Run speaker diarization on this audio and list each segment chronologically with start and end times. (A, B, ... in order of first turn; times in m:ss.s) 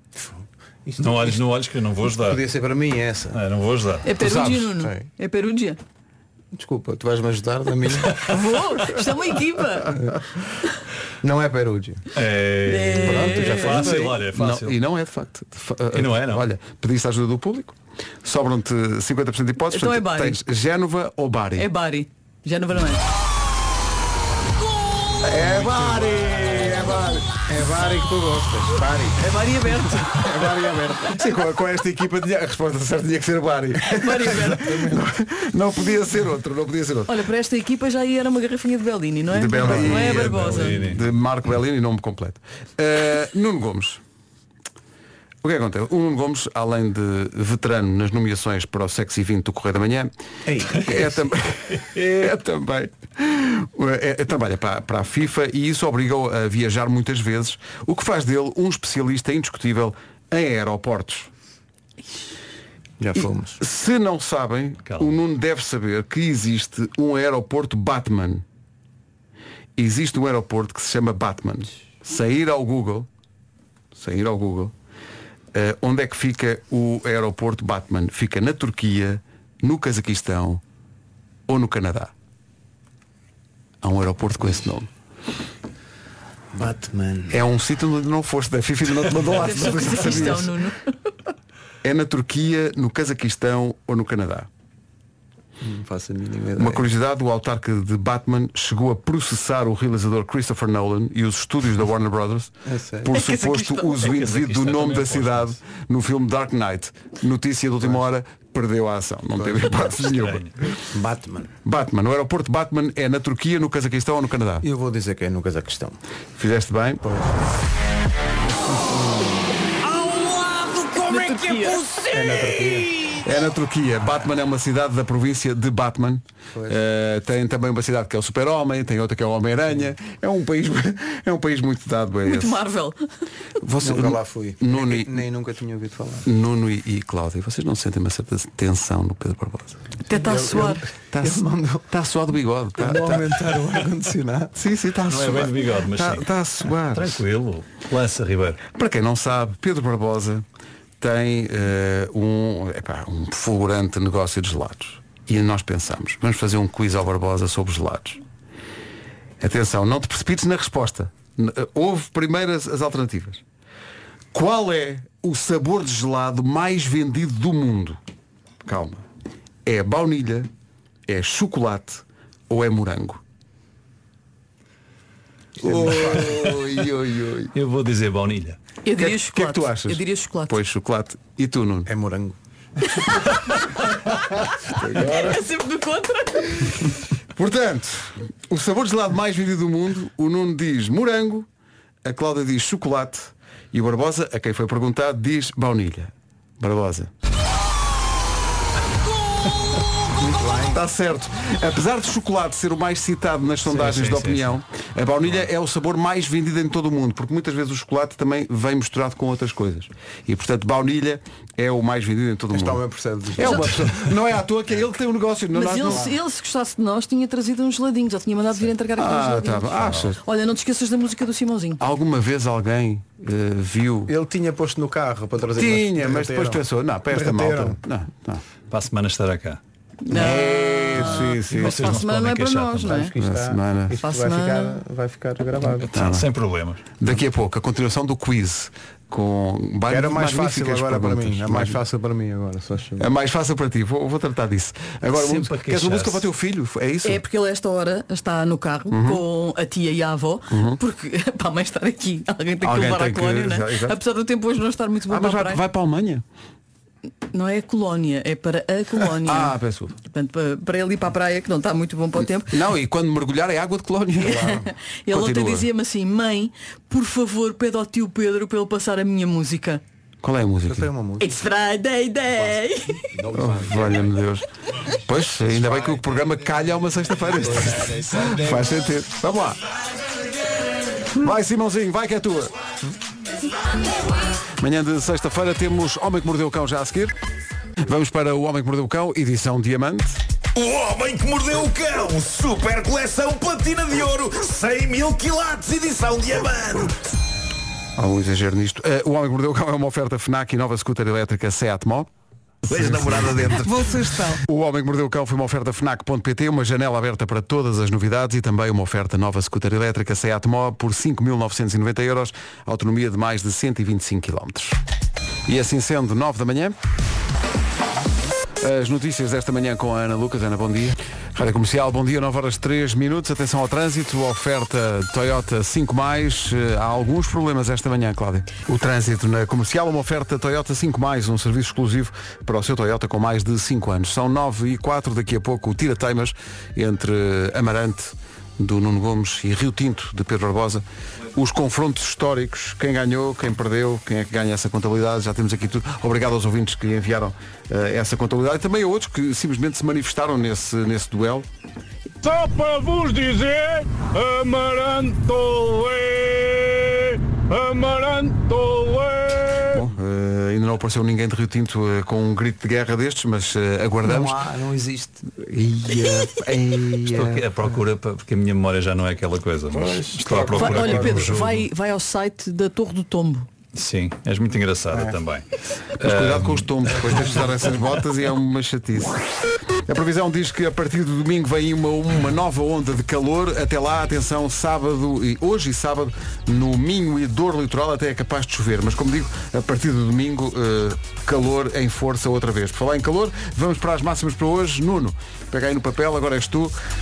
0:00.2-0:01.4 A
0:01.0-0:02.4 B
0:02.2-0:03.4 A
0:03.3-0:04.1 B
0:04.0-0:05.8 C
0:04.8-0:05.1 A
0:06.5-0:08.3 A
0:08.3-0:10.0 C
0:11.2-0:12.0 A
0:12.1-0:14.8 B
0:12.7-0:13.9 C
0:13.1-0:21.7 D
0:13.6-0:14.2 A
0:15.9-0:16.4 B
0:19.7-0:20.4 C
0:21.6-0:23.0 C
0:25.3-0:27.2 D
0:25.3-0:29.3 A
0:29.2-0:30.2 C
0:30.0-0:31.2 A
0:31.1-0:37.1 D
0:33.9-0:34.8 C
0:34.4-0:35.1 A
0:37.1-0:40.8 C
0:39.3-0:44.0 D
0:39.6-0:41.0 B
0:45.4-0:50.1 D
0:50.5-0:50.8 A
0:50.6-1:01.3 D
1:03.0-1:03.6 A
1:03.2-1:08.4 D
1:04.9-1:05.2 B
1:09.8-1:13.1 D
1:13.9-1:14.7 D
1:15.5-1:20.6 D
1:21.5-1:22.1 D
1:23.8-1:24.9 D
1:26.5-1:27.4 A
1:27.3-1:30.5 D
1:29.4-1:30.9 C
1:31.8-1:34.5 D
1:35.6-1:36.8 A
1:36.6-1:50.5 D
1:42.7-1:43.1 A
1:43.1-1:44.1 C
1:44.0-1:45.6 B
1:49.4-1:49.7 A
1:50.0-1:50.6 B
1:50.9-1:51.5 A
1:51.6-1:54.7 D
1:54.6-1:56.0 A
1:56.4-1:57.0 D
1:57.0-1:57.4 A
1:58.6-1:59.6 A
2:01.0-2:02.0 C
2:02.1-2:02.9 A
2:03.2-2:12.6 D
2:06.5-2:06.8 A
2:12.3-2:13.0 C
2:13.6-2:15.2 D
2:13.8-2:16.3 A
2:16.2-2:19.8 D
2:20.1-2:20.8 C
2:20.1-2:21.9 A
2:21.1-2:23.2 D
2:22.8-2:24.6 A
2:24.6-2:27.2 D
2:25.1-2:26.3 B
2:26.9-2:28.6 B
2:28.7-2:30.4 D
2:31.0-2:38.2 D
2:39.4-2:43.4 D
2:44.3-2:48.0 D
2:48.6-2:49.0 D
2:49.7-2:50.5 D
2:51.1-2:53.2 D
2:55.6-2:57.5 D
2:55.6-2:56.5 A
2:57.5-2:58.6 B
2:58.8-3:00.6 C
2:59.0-3:01.9 D
3:01.9-3:02.4 A
3:04.7-3:05.4 D
3:04.9-3:06.8 C
3:07.4-3:11.5 D
3:12.0-3:17.1 D
3:20.2-3:20.8 A
3:20.7-3:32.8 D
3:23.6-3:24.6 B
3:32.5-3:33.8 A
3:33.4-3:36.1 D
3:35.5-3:41.8 C
3:35.9-3:36.1 A
3:39.0-3:40.2 D
3:39.8-3:40.1 B
3:41.8-3:44.1 D
3:44.1-3:47.8 A
3:45.6-3:48.4 D
3:48.7-3:49.6 B
3:50.1-3:53.1 C
3:50.1-3:52.0 D
3:51.0-3:53.1 B
3:52.9-3:55.9 A
3:53.2-3:54.0 D
3:54.0-3:54.8 C
3:55.9-3:56.3 D
3:55.9-3:56.8 B
3:57.0-4:01.8 D
3:59.9-4:03.1 A
4:03.0-4:07.2 D
4:05.1-4:06.3 B
4:07.0-4:15.6 C
4:08.9-4:09.2 D
4:10.5-4:10.8 D
4:12.6-4:14.0 D
4:15.1-4:16.2 D
4:17.3-4:22.5 C
4:19.2-4:20.0 D
4:22.5-4:25.7 D
4:24.2-4:24.7 A
4:24.2-4:29.8 C
4:30.2-4:30.9 D
4:30.7-4:31.3 A
4:31.2-4:33.0 C
4:33.1-4:34.1 A
4:33.3-4:34.4 D
4:35.0-4:39.6 D
4:35.5-4:36.4 A
4:37.3-4:38.8 A
4:41.2-4:42.5 D
4:44.6-4:47.1 D
4:47.8-4:50.2 D
4:50.6-4:57.0 E
4:58.0-5:02.1 D
5:02.7-5:14.8 D
5:02.7-5:03.6 E
5:15.5-5:16.8 D
5:18.6-5:51.5 D
5:52.2-5:59.8 F
5:59.7-6:04.4 D
6:04.0-6:05.2 A
6:05.4-6:07.4 D
6:07.0-6:11.6 B
6:09.7-6:11.5 A
6:10.5-6:13.5 C
6:13.7-6:15.4 B
6:14.9-6:15.2 A
6:16.0-6:17.4 B
6:16.0-6:19.2 D
6:19.9-6:36.7 D